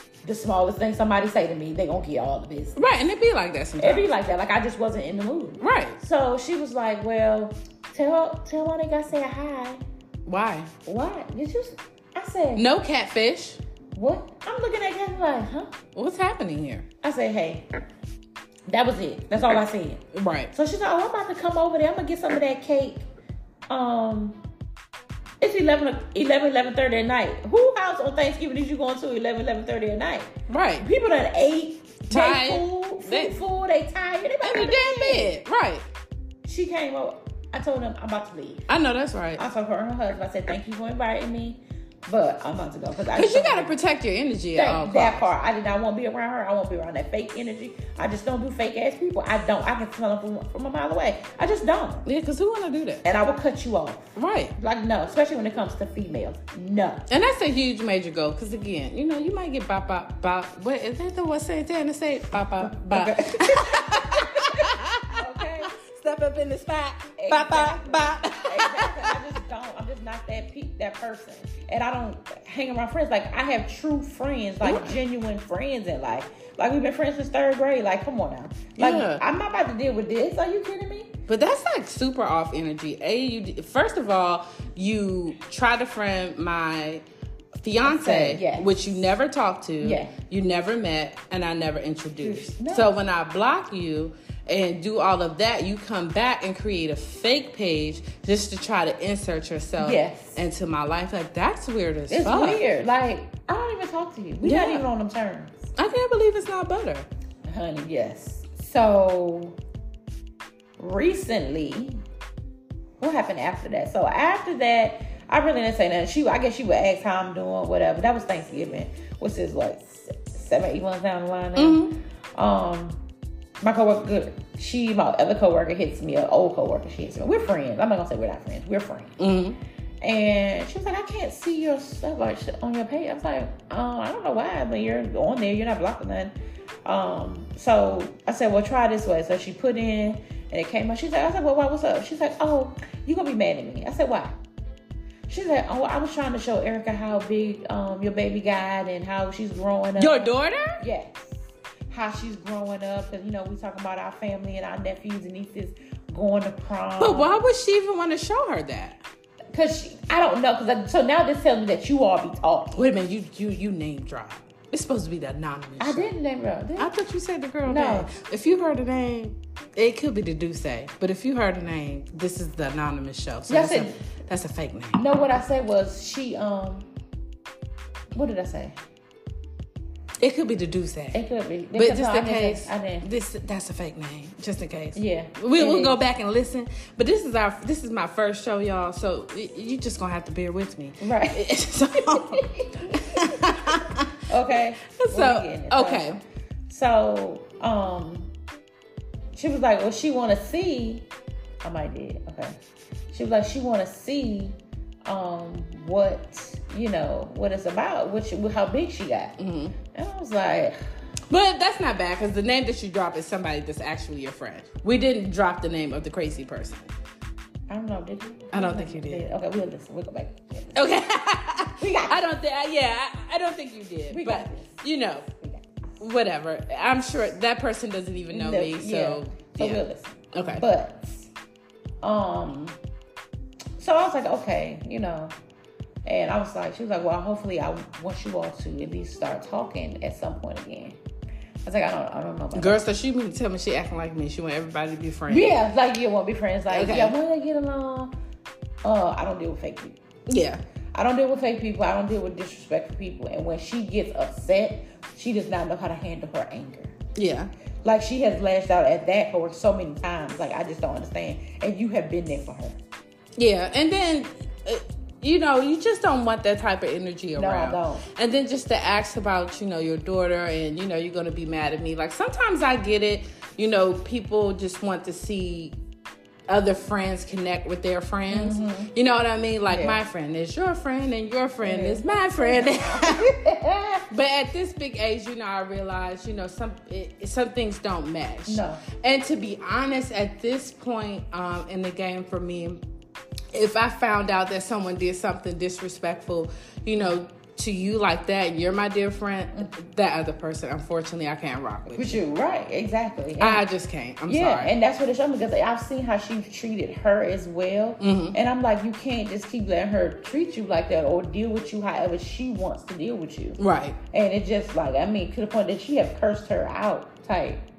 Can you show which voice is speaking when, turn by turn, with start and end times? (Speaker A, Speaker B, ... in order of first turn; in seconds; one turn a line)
Speaker A: 0.2-2.8
Speaker B: 2.8-4.1
Speaker A: 3.8-9.8
Speaker B: 5.6-6.0
Speaker B: 10.3-10.7
Speaker A: 10.9-12.7
Speaker B: 12.6-13.6
Speaker A: 13.9-15.7
Speaker B: 15.9-16.9
Speaker A: 17.0-17.7
Speaker A: 18.7-23.1
Speaker B: 20.1-20.5
Speaker A: 23.7-24.4
Speaker A: 25.4-35.4
Speaker B: 30.5-30.9
Speaker B: 32.1-33.4
Speaker B: 34.4-35.9
Speaker A: 36.5-38.7
Speaker B: 38.7-39.4
Speaker A: 39.4-43.7
Speaker B: 43.1-45.3
Speaker A: 44.5-52.0
Speaker B: 52.0-53.0
Speaker A: 53.0-57.1
Speaker B: 54.2-54.5
Speaker B: 57.1-69.3
Speaker A: 62.8-65.8
Speaker A: 67.2-81.2
Speaker B: 74.6-75.0
Speaker B: 78.8-79.2
Speaker B: 81.3-87.0
Speaker B: 87.6-102.6
Speaker A: 87.8-89.0
Speaker A: 89.8-90.2
Speaker A: 92.2-92.9
Speaker A: 99.8-100.4
Speaker A: 102.1-105.7
Speaker B: 104.4-104.9
Speaker B: 105.8-107.1
Speaker A: 107.5-109.6
Speaker A: 110.8-112.0
Speaker A: 113.0-123.0
Speaker B: 121.5-122.0
Speaker A: 123.6-129.2
Speaker B: 129.2-129.6
Speaker A: 130.0-136.3
Speaker A: 136.8-144.4
Speaker A: 145.3-157.3
Speaker B: 150.0-150.8
Speaker B: 157.0-159.0
Speaker A: 159.5-162.9
Speaker B: 162.8-166.1
Speaker A: 165.8-166.9
Speaker B: 166.8-175.0
Speaker A: 167.7-168.1
Speaker A: 173.5-174.0
Speaker A: 174.9-176.9
Speaker A: 178.2-178.8
Speaker B: 180.2-181.2
Speaker A: 181.1-183.1
Speaker B: 181.8-196.2
Speaker A: 184.9-186.0
Speaker A: 191.0-191.5
Speaker A: 192.0-196.1
Speaker A: 196.7-198.3
Speaker A: 199.3-201.1
Speaker A: 201.6-202.6
Speaker A: 203.1-209.4
Speaker B: 209.4-209.8
Speaker A: 209.9-210.8
Speaker B: 211.3-216.9
Speaker A: 217.7-220.8
Speaker B: 218.5-219.3
Speaker B: 220.8-225.3
Speaker A: 221.8-222.2
Speaker A: 224.1-226.0
Speaker B: 226.0-229.8
Speaker A: 228.3-231.3
Speaker B: 230.3-230.6
Speaker A: 232.0-232.8
Speaker A: 233.8-235.3
Speaker A: 236.1-241.0
Speaker A: 241.7-242.8
Speaker B: 242.6-245.6
Speaker A: 245.3-248.1
Speaker B: 246.7-247.2
Speaker A: 248.8-250.0
Speaker B: 250.3-250.6
Speaker A: 250.9-257.0
Speaker B: 257.1-257.5
Speaker A: 257.8-262.8
Speaker B: 263.4-275.8
Speaker A: 267.4-268.1
Speaker B: 276.5-283.3
Speaker A: 278.3-278.9
Speaker A: 279.7-280.0
Speaker A: 281.6-284.1
Speaker B: 284.1-292.8
Speaker A: 288.5-288.8
Speaker B: 293.5-302.2
Speaker A: 301.9-303.6
Speaker B: 303.4-304.7
Speaker A: 304.3-317.6
Speaker B: 308.0-308.4
Speaker B: 313.6-314.0